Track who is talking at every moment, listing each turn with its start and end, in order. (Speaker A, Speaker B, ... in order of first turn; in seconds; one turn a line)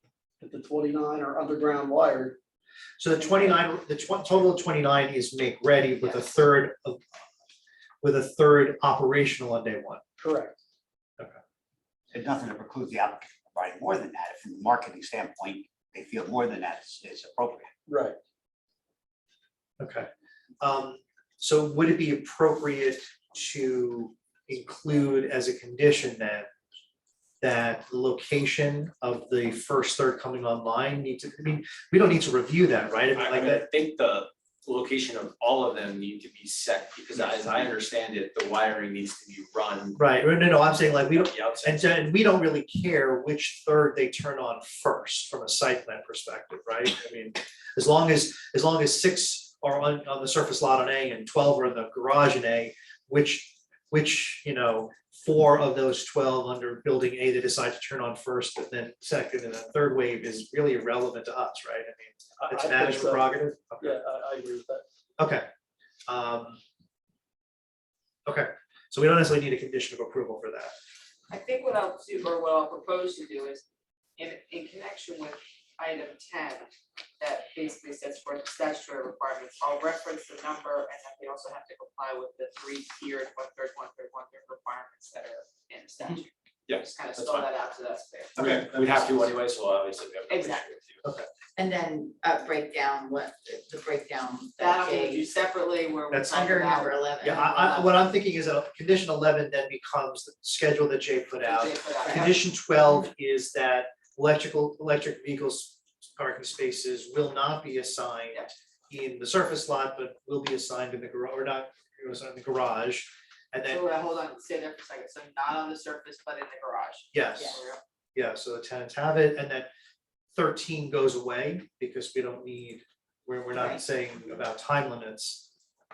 Speaker A: 0.4-2.4
Speaker B: 3.0-7.0
Speaker B: 8.0-10.0
Speaker A: 10.2-10.6
Speaker C: 12.1-17.7
Speaker A: 17.9-18.2
Speaker B: 19.8-20.1
Speaker B: 20.6-26.5
Speaker B: 27.4-33.6
Speaker D: 33.1-40.0
Speaker B: 40.0-64.0
Speaker D: 41.1-41.9
Speaker A: 62.4-64.8
Speaker B: 65.2-65.4
Speaker B: 66.1-66.6
Speaker B: 68.2-70.7
Speaker E: 71.3-73.6
Speaker E: 74.2-89.1
Speaker D: 86.7-87.5
Speaker D: 88.3-91.0
Speaker B: 88.4-88.6
Speaker E: 90.3-90.7
Speaker F: 91.5-95.2
Speaker E: 94.6-98.0
Speaker B: 96.1-96.5
Speaker F: 96.3-97.5
Speaker B: 97.2-113.8
Speaker E: 101.4-102.4
Speaker E: 113.7-117.8
Speaker B: 117.1-117.6
Speaker B: 118.1-119.7
Speaker B: 120.3-125.5